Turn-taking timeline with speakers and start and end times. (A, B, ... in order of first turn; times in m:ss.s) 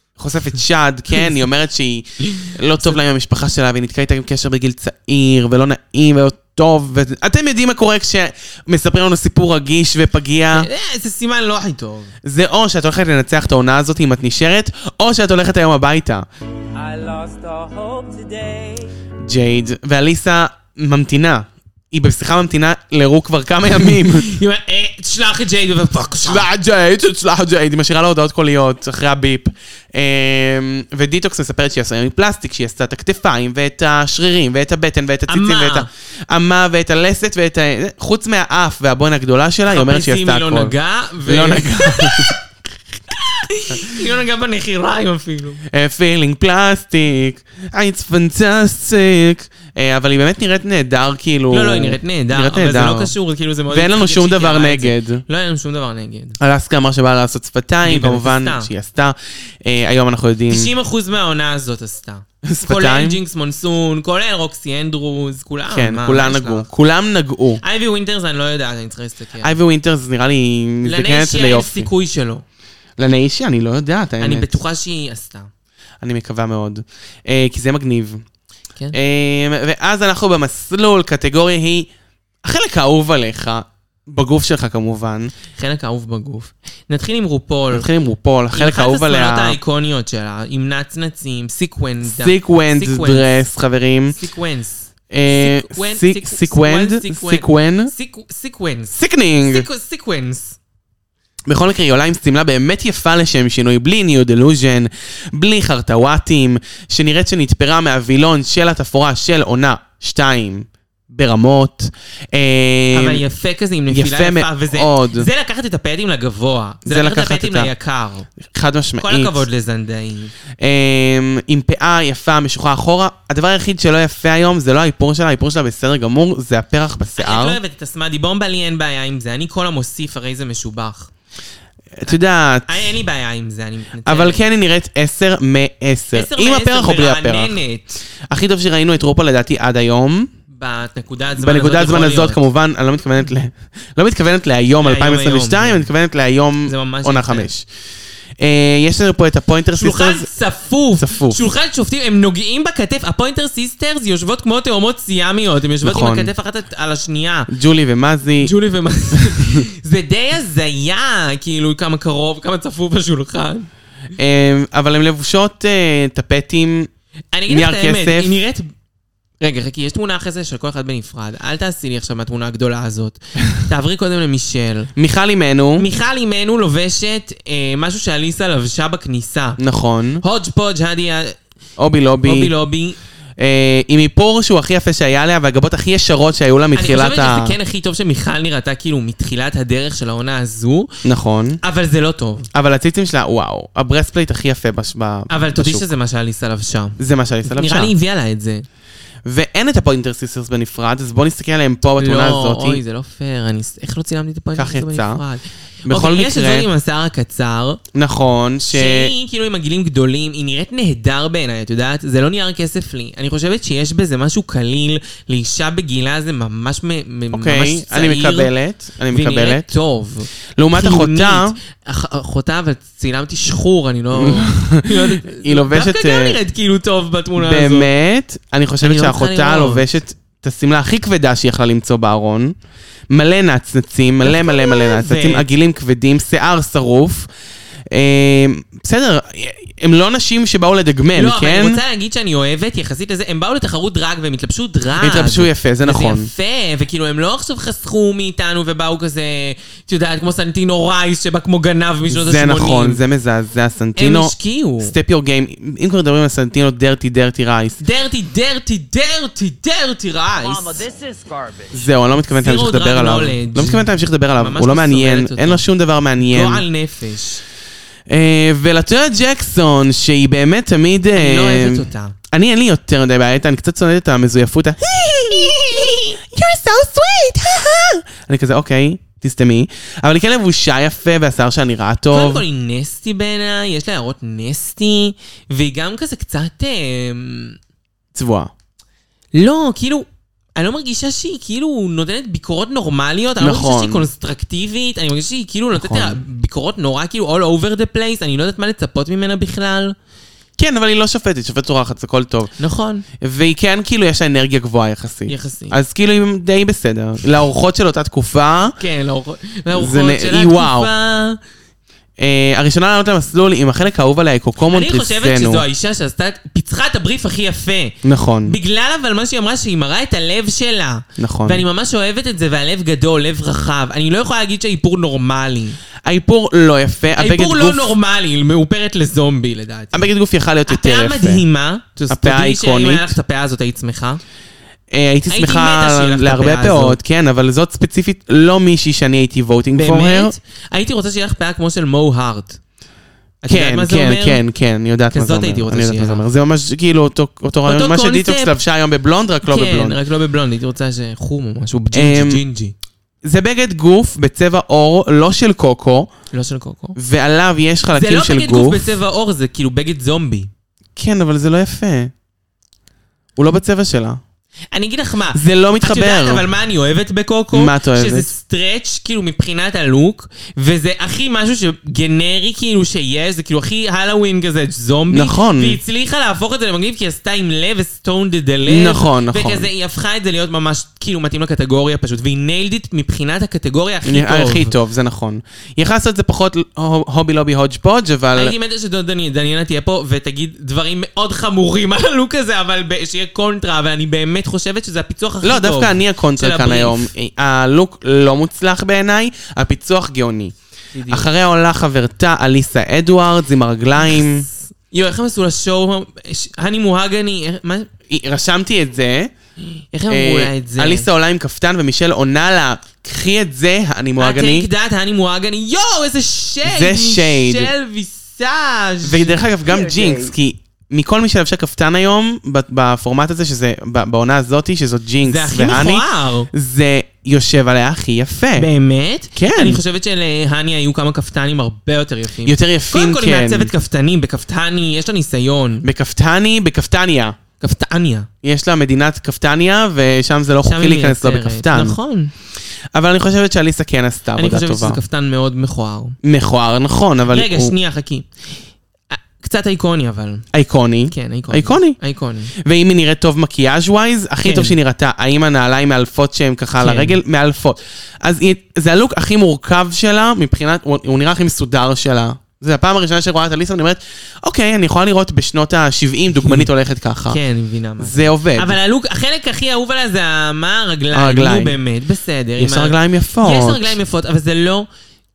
0:00.2-0:10.7 A
0:02.4-0:03.0 B
0:10.5-0:12.1 B
0:12.2-0:16.3 A
0:16.8-0:18.9 C
0:19.2-0:24.4 A
0:23.9-0:26.5 B
0:26.2-0:40.7 A
0:35.3-0:35.9 B
0:39.7-0:42.4 B
0:41.3-0:42.3 A
0:43.1-0:45.6 B
0:45.7-0:53.1 A
0:51.5-0:56.4 B
0:53.7-0:55.2 A
0:56.4-1:00.7 A
0:57.8-0:58.7 B
1:00.5-1:06.7 B
1:02.4-1:03.2 A
1:05.7-1:07.6 A
1:07.6-1:09.6 B
1:09.4-1:11.9 A
1:10.8-1:12.4 B
1:13.0-1:14.5 A
1:14.2-1:15.5 B
1:16.0-1:18.2 A
1:18.9-1:21.9 A
1:22.4-1:25.3 A
1:25.6-1:27.9 B
1:27.7-1:29.6 A
1:28.5-1:33.4 B
1:32.0-1:34.2 A
1:34.1-1:40.6 B
1:35.1-1:37.9 A
1:38.9-1:39.7 A
1:41.5-1:53.2 A
1:52.9-1:58.3 B
1:53.9-1:55.3 A
1:56.9-1:57.7 A
1:58.4-1:59.4 A
1:59.0-2:00.3 B
2:00.6-2:07.6 A
2:07.2-2:11.1 B
2:12.0-2:12.9 A
2:12.7-2:14.4 B
2:14.0-2:17.6 A
2:16.1-2:18.0 B
2:18.3-2:20.3 A
2:20.5-2:22.4 B
2:21.4-2:27.7 A
2:24.8-2:25.9 B
2:26.7-2:27.5 B
2:28.4-2:30.3 A
2:29.8-2:37.5 B
2:31.0-2:31.4 A
2:35.8-2:36.3 A
2:37.5-2:38.5 A
2:38.4-2:43.7 B
2:39.1-2:39.6 A
2:44.2-2:46.9 A
2:47.3-2:48.7 B
2:47.5-2:48.4 A
2:49.4-2:54.9 B
2:55.0-2:55.9 A
2:55.8-2:59.6 B
2:59.6-3:00.2 A
3:00.2-3:01.4 B
3:01.8-3:02.5 A
3:02.2-3:03.0 B
3:03.4-3:07.6 A
3:06.7-3:10.9 B
3:11.0-3:11.6 A
3:11.6-3:12.5 B
3:12.5-3:15.9 A
3:15.3-3:18.6 B
3:17.0-3:17.9 A
3:19.2-3:22.8 A
3:22.0-3:27.8 B
3:24.6-3:25.2 A
3:25.9-3:26.7 A
3:27.9-3:29.1 A
3:28.7-3:38.5 B
3:37.3-3:39.7 A
3:39.1-3:47.9 B
3:40.6-3:41.6 A
3:44.1-3:46.4 A
3:47.4-3:52.6 A
3:48.8-3:49.9 B
3:53.1-3:57.3 A
3:54.2-3:55.5 B
3:57.9-4:01.8 A
4:01.1-4:13.0 B
4:05.0-4:06.3 A
4:12.1-4:17.8 A
4:14.0-4:14.9 B
4:17.8-4:20.8 B
4:20.4-4:21.9 C
4:21.7-4:26.6 A
4:22.3-4:25.6 B
4:26.2-4:27.4 B
4:28.1-4:42.4 A
4:31.2-4:32.2 B
4:35.3-4:36.1 B
4:42.1-4:47.6 B
4:48.1-4:48.5 A
4:49.3-5:00.0 B
4:53.4-4:54.1 A
4:55.8-4:56.2 A
5:00.6-5:02.5 A
5:02.6-5:03.0 B
5:03.2-5:08.8 A
5:05.3-5:05.8 B
5:08.8-5:11.4 B
5:09.7-5:10.9 A
5:12.2-5:15.6 A
5:14.7-5:25.8 B
5:18.0-5:18.6 A
5:21.2-5:21.6 A
5:26.0-5:28.0 A
5:27.2-5:30.0 B
5:29.9-5:31.4 A
5:30.7-5:34.2 B
5:32.1-5:33.2 A
5:34.9-5:40.4 A
5:35.3-5:37.0 B
5:39.8-5:42.6 B
5:43.4-5:44.4 B
5:43.5-5:50.0 A
5:45.1-5:46.2 B
5:47.6-5:48.6 B
5:49.4-5:52.8 B
5:51.9-5:52.4 A
5:53.2-5:56.1 A
5:56.3-5:57.0 B
5:57.0-5:59.0 A
5:57.9-6:00.5 B
6:01.0-6:02.1 A
6:03.4-6:04.2 A
6:04.7-6:24.7 B
6:05.3-6:06.4 A
6:07.5-6:08.3 A
6:15.1-6:15.8 A
6:18.7-6:19.7 A
6:24.0-6:28.6 A
6:28.4-6:37.1 B
6:35.4-6:40.5 A
6:41.0-6:41.3 B
6:41.1-6:44.5 A
6:44.0-6:47.9 B
6:48.1-6:49.3 A
6:49.9-6:51.1 B
6:50.1-6:54.7 A
6:54.2-6:59.4 B
6:56.6-6:57.7 A
6:59.0-7:08.7 A
6:59.7-7:00.3 C
7:05.2-7:06.5 B
7:08.6-7:15.9 B
7:09.4-7:09.8 A
7:12.4-7:13.7 A
7:15.8-7:17.4 A
7:17.6-7:18.3 B
7:18.4-7:22.0 A
7:20.6-7:22.3 B
7:22.9-7:25.0 A
7:24.4-7:26.2 B
7:26.2-7:27.8 A
7:27.3-7:28.3 B
7:29.1-7:30.4 B
7:30.5-7:32.0 A
7:31.1-7:32.5 B
7:32.6-7:47.4 A
7:34.4-7:34.8 B
7:36.8-7:37.2 B
7:46.4-7:46.7 B
7:47.3-7:54.9 B
7:48.0-7:48.8 A
7:51.1-7:51.8 A
7:52.6-7:54.0 A